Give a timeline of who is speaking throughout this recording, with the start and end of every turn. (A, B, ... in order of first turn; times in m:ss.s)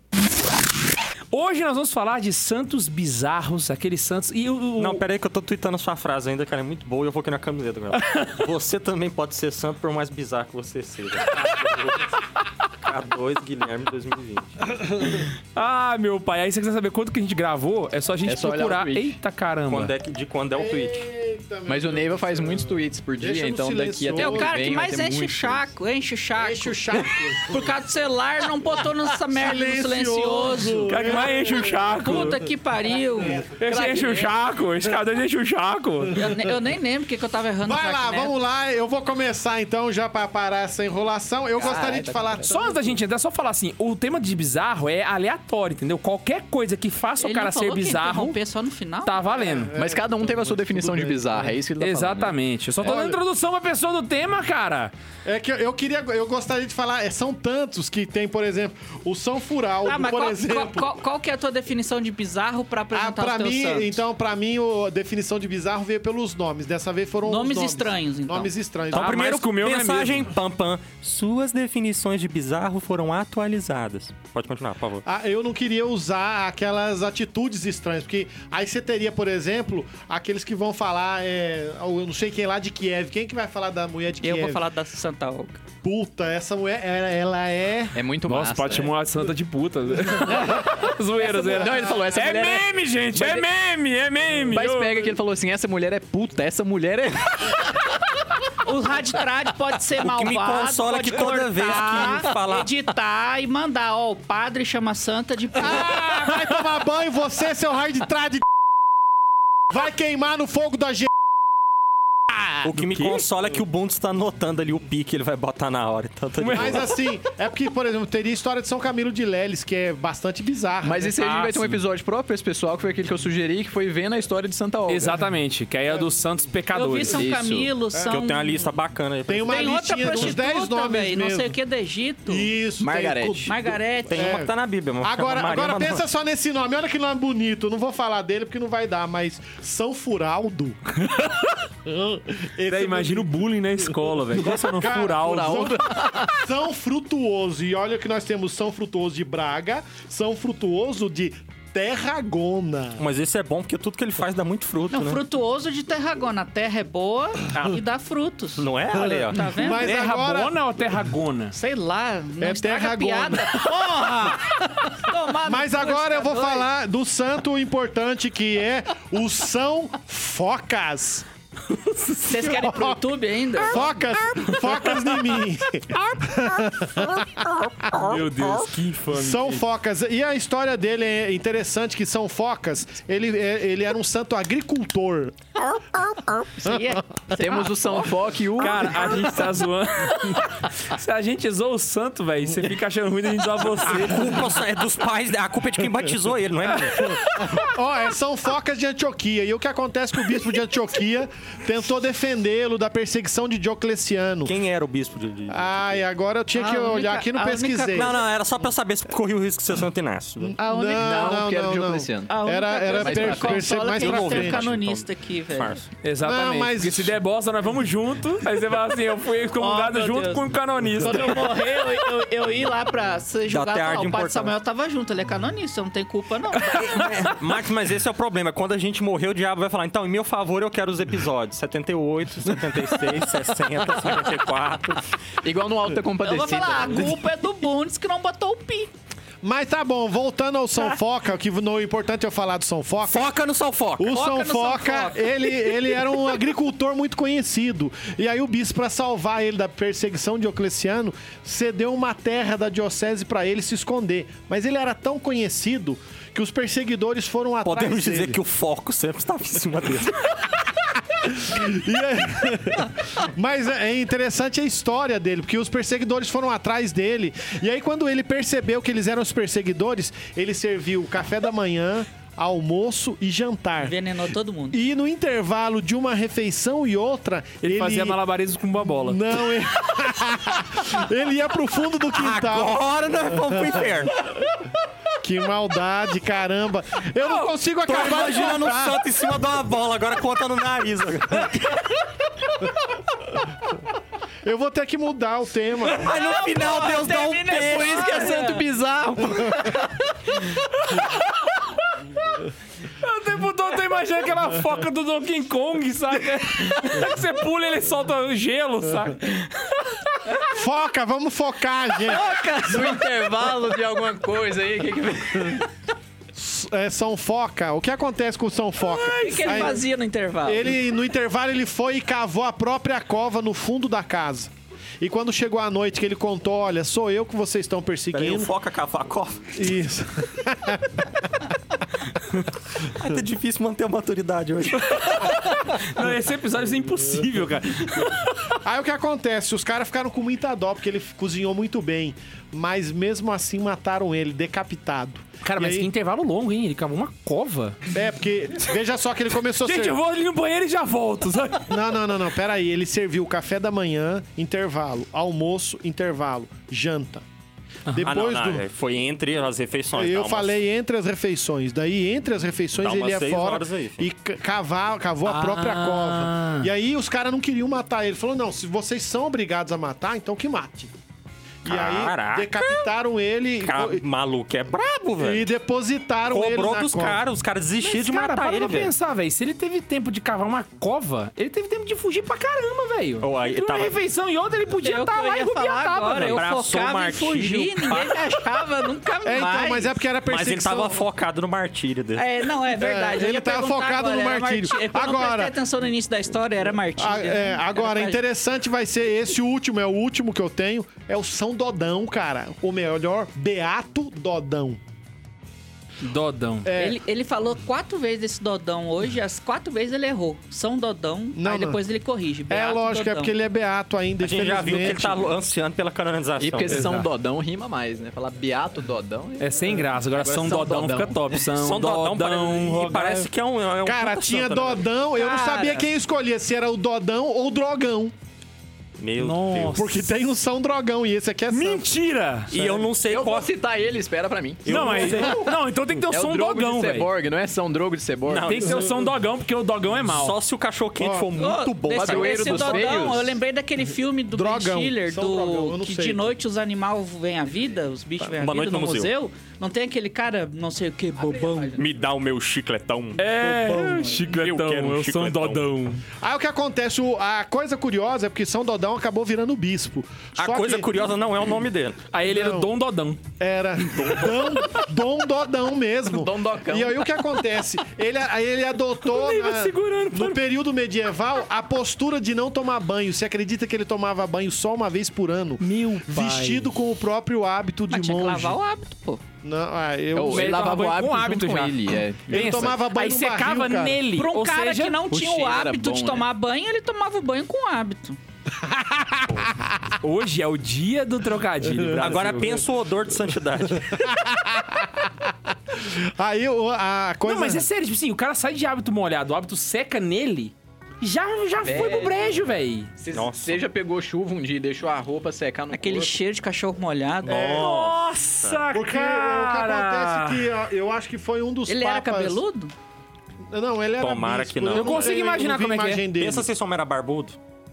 0:01.3-0:05.0 A
0:04.8-0:12.2 B
0:08.0-0:08.2 A
0:12.8-0:14.8 B
0:15.5-0:19.9 A
0:18.2-0:19.2 C
0:19.7-0:21.0 B
0:20.5-0:24.7 D
0:21.7-0:25.7 C
0:24.1-0:31.2 E
0:26.4-0:27.7 D
0:29.3-0:32.3 D
0:30.9-0:32.4 A
0:31.9-0:33.4 E
0:33.2-0:33.6 D
0:33.6-0:36.3 A
0:33.6-0:34.3 C
0:36.1-0:38.3 E
0:37.6-0:42.8 D
0:41.6-0:42.6 C
0:42.5-0:48.4 A
0:47.2-0:49.2 E
0:49.0-0:49.7 A
0:49.3-0:51.5 D
0:49.7-0:52.3 C
0:51.8-0:54.9 A
0:52.8-0:53.2 D
0:55.2-1:01.0 D
0:59.8-1:04.0 E
1:02.9-1:09.2 D
1:07.2-1:08.5 E
1:08.9-1:15.0 B
1:08.9-1:10.3 A
1:15.0-1:24.6 D
1:24.2-1:25.6 E
1:25.8-1:28.0 D
1:27.9-1:28.9 C
1:28.2-1:35.1 A
1:30.3-1:30.6 C
1:31.2-1:33.5 C
1:34.5-1:37.7 C
1:38.6-1:46.0 E
1:40.0-1:42.7 B
1:45.5-1:48.4 D
1:46.1-1:46.7 A
1:49.7-1:51.1 D
1:52.3-1:52.6 D
1:52.6-1:56.9 B
1:52.8-1:53.2 A
1:56.4-1:56.8 A
1:56.5-2:01.2 D
2:00.8-2:05.2 C
2:01.2-2:01.8 A
2:04.9-2:07.3 A
2:06.7-2:08.7 E
2:07.1-2:07.7 C
2:07.9-2:08.2 D
2:08.1-2:10.3 B
2:09.3-2:11.6 D
2:09.4-2:12.5 E
2:12.3-2:20.8 D
2:12.8-2:13.5 C
2:13.4-2:14.4 E
2:14.1-2:16.0 B
2:21.0-2:21.6 A
2:21.8-2:33.0 D
2:22.7-2:25.8 A
2:25.2-2:26.3 C
2:33.0-2:35.2 B
2:34.9-2:39.9 E
2:38.6-2:39.5 B
2:39.3-2:40.5 D
2:39.6-2:41.6 A
2:41.5-2:46.7 E
2:42.4-2:43.8 D
2:45.4-2:51.2 D
2:52.2-2:53.9 E
2:52.4-2:53.0 D
2:53.5-2:58.1 D
2:57.9-2:59.6 A
2:59.1-3:05.4 D
3:06.2-3:08.9 E
3:06.6-3:07.0 D
3:07.3-3:09.4 C
3:08.6-3:14.5 A
3:13.8-3:17.2 B
3:16.9-3:17.6 A
3:17.0-3:24.5 D
3:24.4-3:26.0 B
3:25.5-3:28.2 D
3:26.5-3:28.2 E
3:27.9-3:30.6 B
3:30.4-3:34.7 D
3:30.6-3:31.4 E
3:31.0-3:32.4 C
3:32.3-3:35.8 E
3:32.9-3:33.6 C
3:33.6-3:35.8 B
3:36.0-3:42.0 A
3:36.2-3:37.2 D
3:39.6-3:40.5 E
3:41.0-3:47.3 E
3:43.5-3:44.5 B
3:46.8-3:55.1 B
3:55.4-3:57.1 C
3:56.2-3:58.9 E
3:59.4-4:03.3 D
4:03.0-4:04.2 B
4:04.0-4:18.4 D
4:04.1-4:05.5 E
4:17.6-4:20.4 B
4:21.1-4:33.9 D
4:33.8-4:34.8 E
4:34.7-4:38.2 D
4:37.6-4:39.4 A
4:39.0-4:43.8 D
4:42.1-4:44.1 B
4:45.2-4:49.0 D
4:47.2-4:47.5 A
4:47.8-4:51.9 B
4:54.4-4:56.1 D
4:56.0-4:58.6 E
4:56.0-4:58.3 B
4:56.3-4:59.9 C
5:00.8-5:02.0 A
5:03.0-5:10.4 A
5:10.5-5:12.3 D
5:12.0-5:13.1 E
5:12.6-5:15.7 C
5:16.3-5:19.8 D
5:18.9-5:20.7 E
5:19.4-5:19.7 A
5:20.4-5:28.5 D
5:28.1-5:29.6 B
5:29.5-5:31.1 D
5:32.8-5:35.4 B
5:34.8-5:38.6 A
5:38.6-5:45.9 D
5:45.4-5:47.8 A
5:47.9-5:50.0 D
5:49.6-5:51.8 A
5:51.7-5:57.2 D
5:57.9-5:58.6 D
5:58.0-6:00.6 B
5:59.9-6:10.9 D
6:02.7-6:04.1 B
6:05.2-6:06.7 A
6:11.6-6:14.0 D
6:11.6-6:12.8 B
6:13.6-6:15.5 B
6:15.2-6:17.2 D
6:16.3-6:18.9 B
6:17.8-6:26.4 A
6:23.2-6:24.0 B
6:24.8-6:29.9 E
6:26.2-6:28.3 B
6:29.2-6:31.0 D
6:30.3-6:32.2 B
6:32.2-6:38.2 E
6:32.7-6:35.5 D
6:37.0-6:44.8 D
6:46.0-6:46.7 A
6:46.6-6:47.0 D
6:46.7-6:53.3 E
6:51.3-6:51.8 D
6:52.5-6:55.3 D
6:54.2-6:57.0 B
6:56.4-7:01.4 C
6:56.7-6:57.1 A
6:59.4-7:03.3 A
7:01.5-7:04.8 B
7:03.8-7:08.1 D
7:05.2-7:05.9 E
7:09.0-7:09.8 B
7:09.2-7:10.1 A
7:09.7-7:11.9 D
7:11.5-7:12.6 A
7:12.5-7:13.5 B
7:13.0-7:15.3 C
7:14.6-7:15.5 B
7:14.6-7:17.1 A
7:16.1-7:18.6 C
7:18.2-7:19.0 B
7:18.4-7:20.4 A
7:20.0-7:23.0 B
7:21.0-7:21.3 D
7:21.4-7:31.8 E
7:21.9-7:23.4 C
7:24.3-7:26.3 D
7:28.2-7:29.1 B
7:31.3-7:31.8 C
7:31.8-7:35.6 B
7:33.2-7:36.0 A
7:33.7-7:34.2 D
7:36.2-7:41.0 D
7:40.4-7:42.0 B
7:42.1-7:43.2 A
7:42.2-7:42.7 D
7:43.4-7:58.6 D
7:43.9-7:44.3 B
7:46.1-7:47.1 C
7:49.0-7:50.4 A
7:55.6-7:56.7 A
7:57.9-7:59.2 E
7:59.4-8:00.6 D
8:00.1-8:02.7 C
8:00.3-8:05.0 A
8:02.3-8:04.0 D
8:04.1-8:08.2 E
8:05.1-8:06.2 C
8:08.6-8:09.9 D
8:10.0-8:12.6 A
8:11.9-8:14.1 B
8:13.7-8:17.7 D
8:17.2-8:22.9 A
8:21.6-8:22.4 C
8:23.0-8:26.2 C
8:23.1-8:23.6 B
8:25.7-8:27.6 E
8:27.2-8:28.6 B
8:27.3-8:27.8 D
8:27.4-8:30.5 A
8:28.7-8:32.4 D
8:31.7-8:32.7 E
8:33.5-8:36.5 D
8:34.0-8:35.1 B
8:34.7-8:36.0 A
8:36.2-8:37.4 B